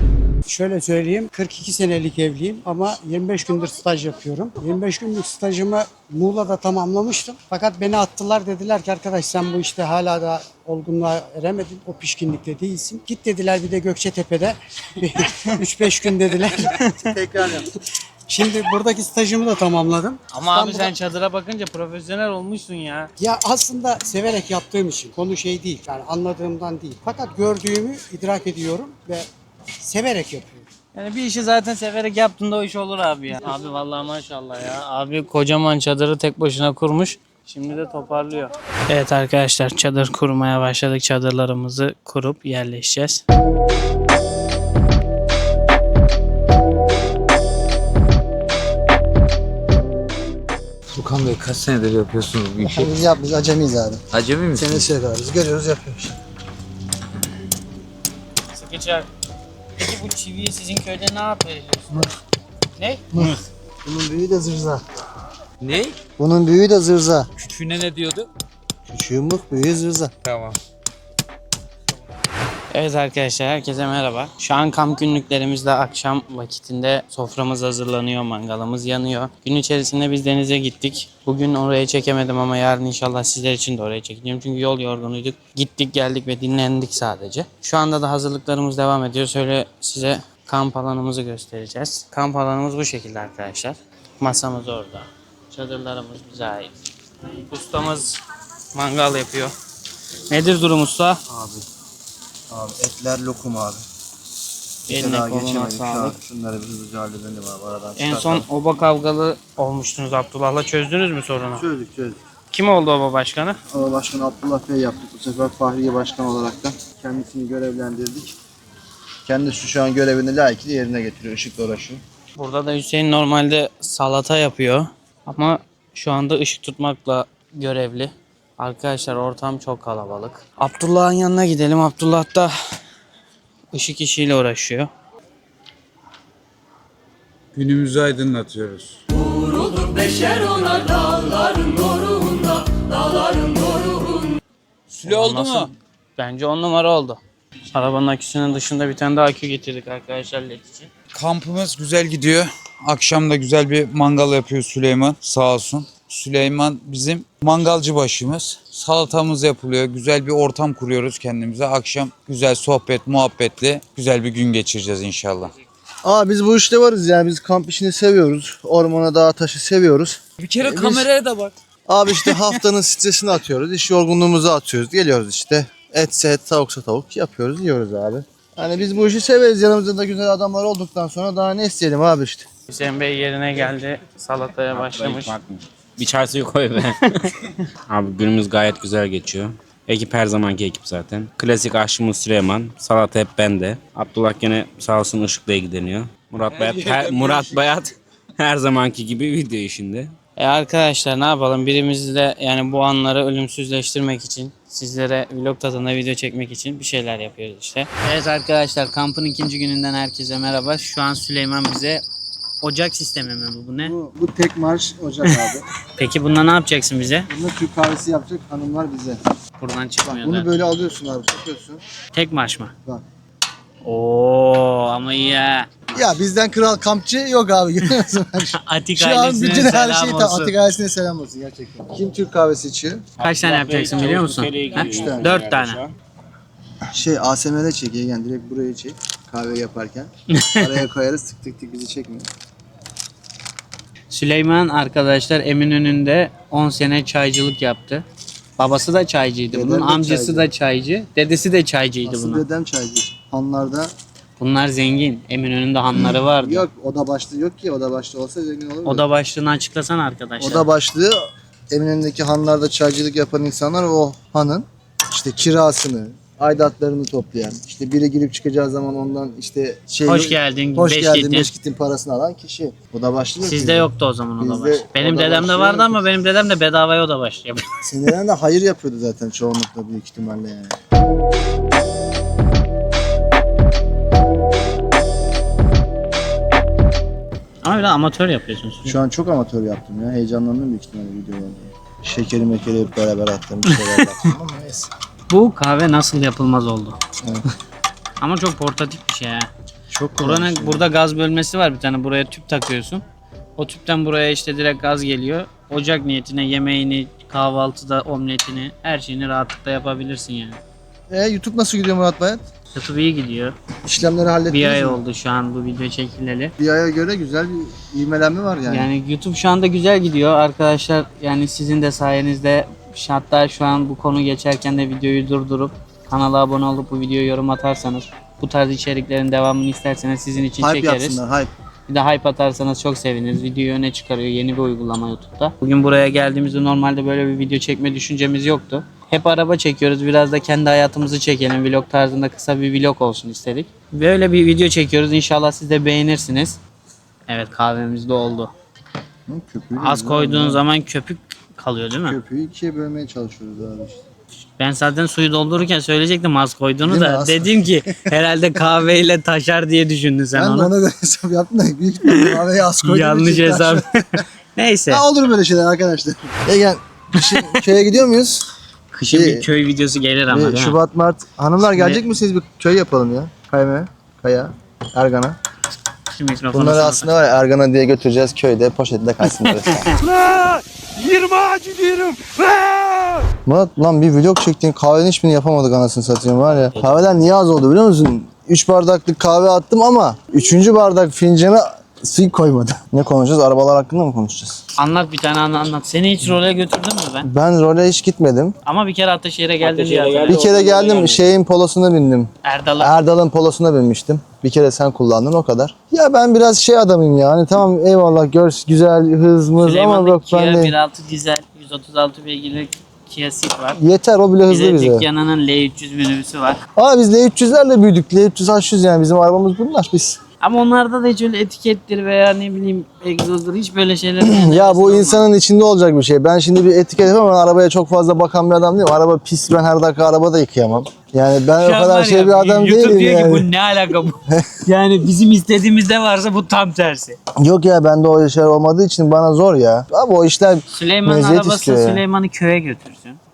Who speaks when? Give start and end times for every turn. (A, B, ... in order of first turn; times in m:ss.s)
0:00.4-0:17.5 A
0:17.1-0:17.7 B
0:18.3-0:20.9 A
0:20.3-0:23.1 C
0:23.2-0:29.3 A
0:29.8-0:30.6 A
0:30.9-0:43.2 C
0:50.9-0:52.9 D
0:52.6-0:54.0 B
0:54.1-0:54.9 D
0:54.5-0:56.2 B
0:58.5-0:59.1 C
0:59.8-1:02.0 C
1:02.8-1:03.3 C
1:03.1-1:04.8 B
1:05.6-1:06.0 D
1:06.2-1:07.3 B
1:07.4-1:08.3 D
1:08.9-1:10.1 B
1:10.2-1:10.6 D
1:12.7-1:36.7 C
1:37.5-1:38.2 C
1:38.7-1:39.5 C
1:40.3-1:41.2 C
1:41.3-1:41.6 B
1:42.5-1:43.8 B
1:44.9-1:46.2 C
1:44.9-1:48.5 B
1:48.0-1:51.6 C
1:51.5-1:52.2 B
1:52.5-1:53.6 C
1:53.7-1:58.4 B
1:59.2-2:02.0 B
2:02.4-2:12.5 C
2:13.7-2:14.9 C
2:17.5-2:19.0 D
2:24.9-2:25.7 D
2:25.0-2:27.2 C
2:27.7-2:30.9 C
2:31.1-2:45.6 D
2:46.0-2:51.1 B
2:50.4-2:51.5 D
2:51.9-3:02.4 B
2:52.1-2:52.6 D
3:02.7-3:05.3 C
3:04.7-3:07.2 E
3:07.9-3:20.1 E
3:16.5-3:17.7 D
3:20.4-3:32.0 C
3:32.6-3:33.9 C
3:33.8-3:35.6 B
3:36.0-3:37.3 C
3:37.3-3:39.2 B
3:39.6-3:40.5 C
3:40.1-3:41.8 B
3:42.1-3:42.7 C
3:43.8-3:45.8 C
3:45.9-3:53.0 B
3:48.6-3:50.5 C
3:53.2-3:55.9 E
3:53.2-3:55.8 C
3:54.8-3:55.4 B
3:56.9-4:02.3 B
4:00.3-4:00.8 C
4:04.1-4:08.0 C
4:08.6-4:12.4 C
4:09.5-4:10.5 B
4:12.0-4:13.9 B
4:14.4-4:16.6 C
4:16.4-4:19.0 B
4:18.8-4:20.7 C
4:20.4-4:36.0 B
4:30.0-4:31.5 C
4:33.4-4:37.6 C
4:37.8-4:40.8 B
4:47.6-4:49.0 C
4:48.8-4:54.9 B
4:53.6-4:54.2 C
4:55.3-4:57.0 C
4:58.2-4:59.5 C
4:59.9-5:00.9 B
5:00.2-5:03.0 C
5:03.6-5:10.6 C
5:11.1-5:12.4 B
5:12.7-5:13.5 C
5:13.8-5:15.0 B
5:14.5-5:16.5 C
5:16.6-5:18.9 B
5:18.7-5:31.2 C
5:30.6-5:31.5 B
5:31.9-5:46.6 C
5:47.3-5:48.5 C
5:49.3-5:50.6 B
5:49.8-5:52.2 C
5:52.0-5:54.0 B
5:54.6-6:00.7 C
5:56.8-5:58.1 B
6:00.3-6:04.0 B
6:02.0-6:05.0 C
6:04.9-6:08.5 B
6:08.9-6:10.8 C
6:09.1-6:09.4 B
6:10.3-6:15.4 B
6:11.7-6:12.0 C
6:16.1-6:17.1 C
6:16.5-6:20.0 B
6:19.6-6:20.0 C
6:20.1-6:23.2 F
6:23.4-6:34.6 B
6:34.8-6:37.3 C
6:37.2-6:38.6 B
6:38.6-6:41.0 C
6:39.6-6:41.2 E
6:40.3-6:50.7 B
6:42.4-6:43.0 C
6:49.6-6:53.8 C
6:53.8-6:55.1 B
6:54.5-6:56.6 C
6:56.8-7:00.2 B
7:00.4-7:05.3 C
7:04.2-7:13.5 B
7:11.6-7:17.2 C
7:17.4-7:22.0 B
7:20.7-7:23.2 C